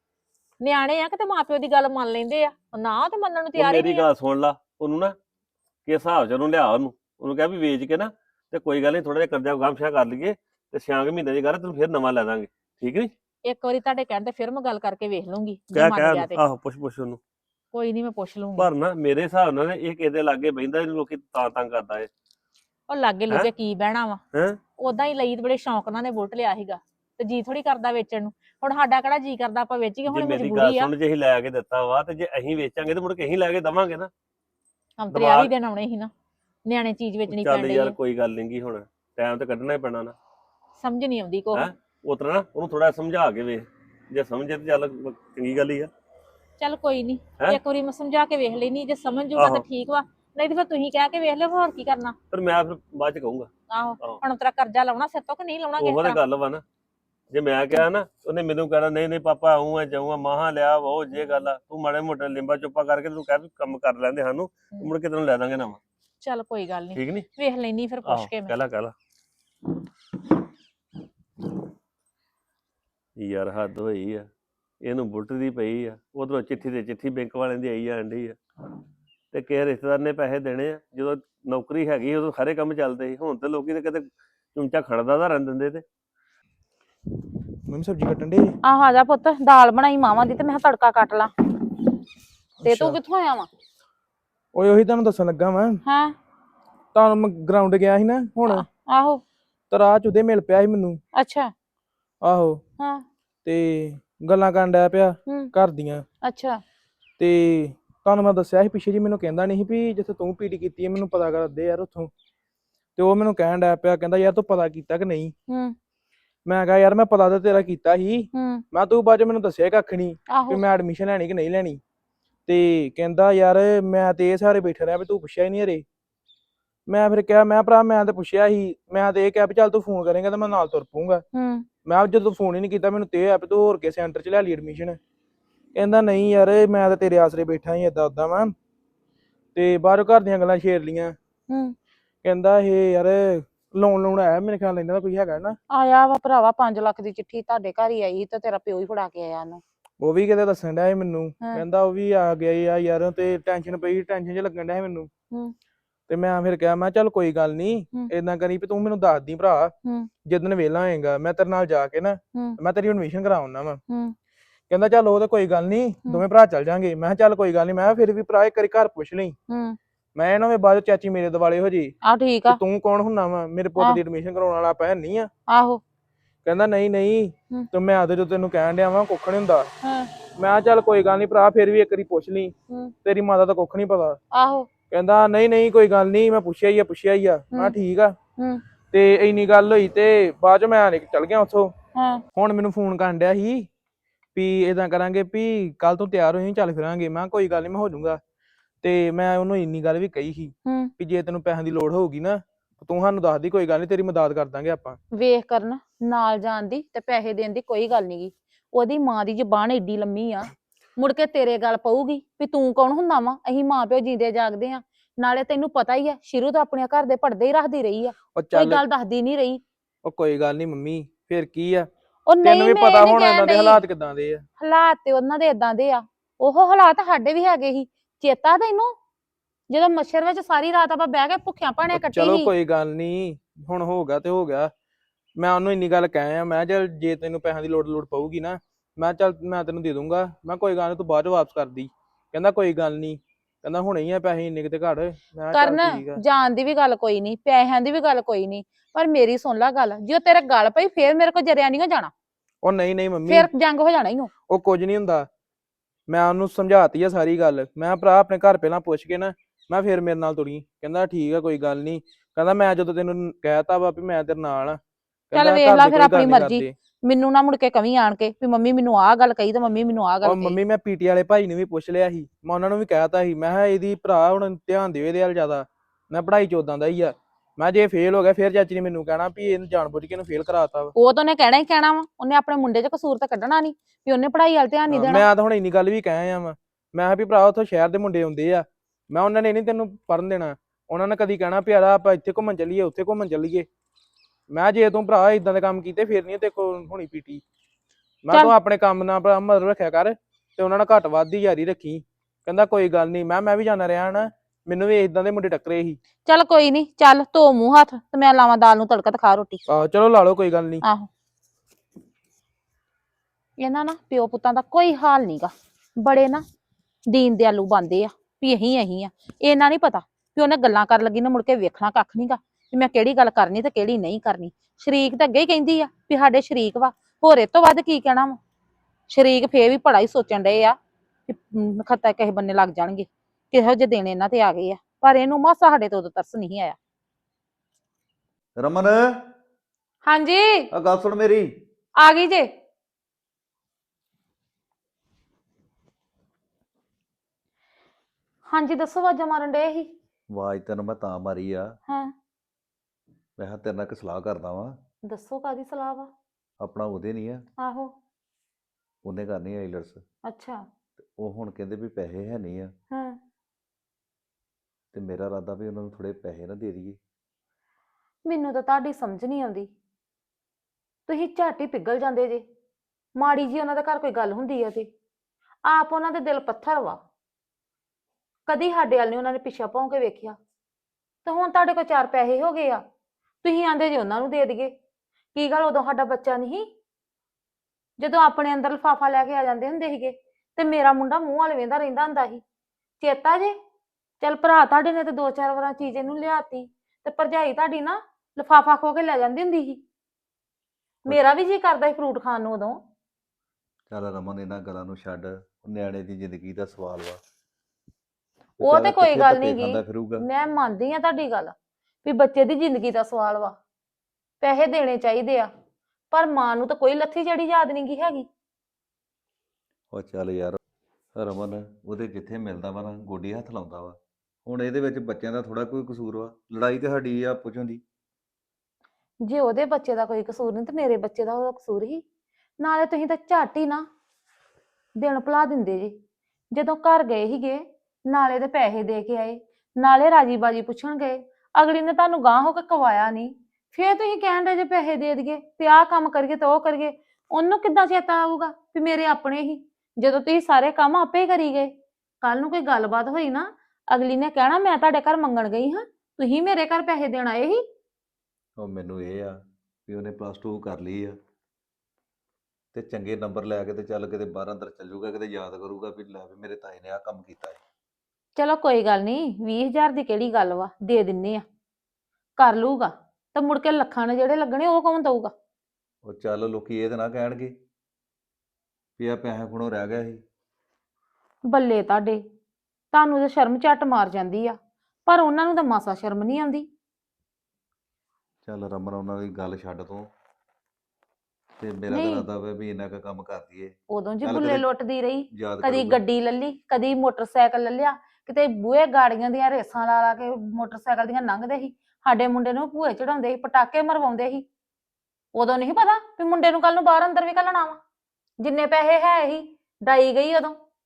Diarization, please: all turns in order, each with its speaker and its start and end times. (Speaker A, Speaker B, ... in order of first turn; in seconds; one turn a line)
Speaker A: 0.6-4.0
Speaker B: 3.5-5.1
Speaker B: 5.9-13.1
Speaker A: 13.4-16.4
Speaker B: 15.7-17.2
Speaker A: 17.7-18.7
Speaker B: 18.6-22.1
Speaker A: 22.9-24.2
Speaker B: 24.3-24.6
Speaker A: 24.8-30.9
Speaker B: 30.1-34.1
Speaker A: 35.0-36.1
Speaker B: 35.1-35.5
Speaker A: 36.7-37.9
Speaker B: 37.2-40.2
Speaker A: 40.8-41.7
Speaker B: 41.5-45.9
Speaker A: 46.6-52.2
Speaker B: 49.4-49.6
Speaker B: 52.3-53.5
Speaker A: 53.7-56.2
Speaker B: 55.8-56.6
Speaker B: 57.3-65.8
Speaker A: 66.2-68.5
Speaker B: 66.9-67.2
Speaker B: 68.0-68.9
Speaker B: 73.2-74.3
Speaker B: 74.8-78.4
Speaker B: 79.3-85.8
Speaker C: 87.7-88.5
Speaker D: 88.7-91.3
Speaker C: 92.6-93.0
Speaker D: 92.7-93.5
Speaker C: 94.5-95.8
Speaker D: 95.9-96.1
Speaker C: 96.9-98.7
Speaker D: 98.5-99.2
Speaker C: 99.7-101.0
Speaker D: 101.1-101.5
Speaker C: 102.2-102.6
Speaker D: 102.8-103.0
Speaker C: 103.4-106.0
Speaker D: 106.2-106.6
Speaker C: 107.2-112.1
Speaker C: 113.0-115.3
Speaker D: 115.5-115.8
Speaker C: 116.5-121.8
Speaker D: 118.3-118.6
Speaker D: 120.3-120.6
Speaker C: 122.5-125.8
Speaker C: 126.9-131.2
Speaker D: 131.3-131.7
Speaker C: 131.8-135.0
Speaker C: 135.8-138.5
Speaker C: 139.6-141.2
Speaker D: 141.5-141.8
Speaker C: 142.2-145.6
Speaker D: 145.7-149.6
Speaker C: 150.0-155.1
Speaker C: 156.1-159.7
Speaker C: 160.2-163.8
Speaker D: 162.3-162.6
Speaker D: 163.9-164.1
Speaker C: 164.7-169.4
Speaker D: 169.5-169.8
Speaker C: 170.2-171.9
Speaker D: 172.0-172.6
Speaker C: 172.5-175.3
Speaker D: 175.5-175.8
Speaker C: 176.4-179.7
Speaker D: 179.8-180.1
Speaker C: 180.4-184.2
Speaker D: 184.3-184.7
Speaker C: 184.9-188.2
Speaker D: 187.5-187.8
Speaker D: 188.4-188.6
Speaker C: 188.9-191.8
Speaker D: 191.9-192.2
Speaker C: 192.3-193.7
Speaker C: 194.3-198.2
Speaker C: 198.8-205.0
Speaker D: 200.7-200.9
Speaker D: 205.1-219.6
Speaker C: 218.3-218.8
Speaker C: 220.0-221.9
Speaker D: 222.3-223.8
Speaker C: 222.4-224.4
Speaker D: 224.6-228.9
Speaker D: 229.7-232.5
Speaker C: 231.9-234.7
Speaker C: 235.4-246.2
Speaker D: 245.5-252.1
Speaker C: 252.6-253.5
Speaker D: 253.3-254.3
Speaker C: 254.5-255.3
Speaker C: 256.1-264.8
Speaker C: 265.3-266.7
Speaker D: 265.3-270.6
Speaker C: 270.2-280.9
Speaker D: 281.0-285.2
Speaker C: 284.9-293.7
Speaker C: 294.5-297.4
Speaker C: 298.2-306.0
Speaker D: 306.2-309.6
Speaker C: 309.7-310.8
Speaker D: 310.8-311.1
Speaker D: 313.6-316.4
Speaker D: 317.1-328.4
Speaker D: 329.1-330.8
Speaker D: 331.3-336.8
Speaker E: 338.6-339.3
Speaker D: 340.0-340.7
Speaker E: 340.7-341.5
Speaker D: 342.0-342.5
Speaker D: 348.5-349.9
Speaker E: 350.3-351.8
Speaker E: 353.4-354.8
Speaker D: 355.1-356.1
Speaker E: 356.6-357.5
Speaker D: 357.6-357.9
Speaker E: 359.0-360.0
Speaker D: 360.3-360.6
Speaker E: 361.0-362.7
Speaker D: 362.9-363.2
Speaker E: 364.9-367.0
Speaker D: 368.3-369.7
Speaker D: 371.1-372.4
Speaker D: 373.2-374.9
Speaker D: 375.6-377.0
Speaker D: 378.5-380.4
Speaker D: 381.2-382.8
Speaker D: 383.4-384.7
Speaker D: 385.4-386.7
Speaker D: 388.0-392.4
Speaker D: 393.0-393.5
Speaker D: 394.2-399.8
Speaker D: 401.0-402.8
Speaker E: 403.9-407.2
Speaker E: 408.6-410.2
Speaker D: 408.6-413.6
Speaker D: 414.4-415.5
Speaker D: 416.1-418.3
Speaker E: 419.9-420.6
Speaker E: 421.2-427.8
Speaker D: 429.2-432.0
Speaker D: 432.6-433.9
Speaker D: 435.0-435.9
Speaker D: 436.5-451.7
Speaker D: 452.2-457.6
Speaker E: 458.6-461.1
Speaker E: 462.7-467.6
Speaker D: 468.4-471.4
Speaker D: 472.4-475.3
Speaker E: 476.0-477.5
Speaker E: 479.0-480.2
Speaker D: 481.5-482.2
Speaker D: 482.9-486.7
Speaker E: 488.4-490.1
Speaker E: 491.6-494.6
Speaker D: 491.9-492.2
Speaker D: 493.9-504.4
Speaker E: 495.3-496.0
Speaker D: 505.4-507.8
Speaker D: 508.4-510.5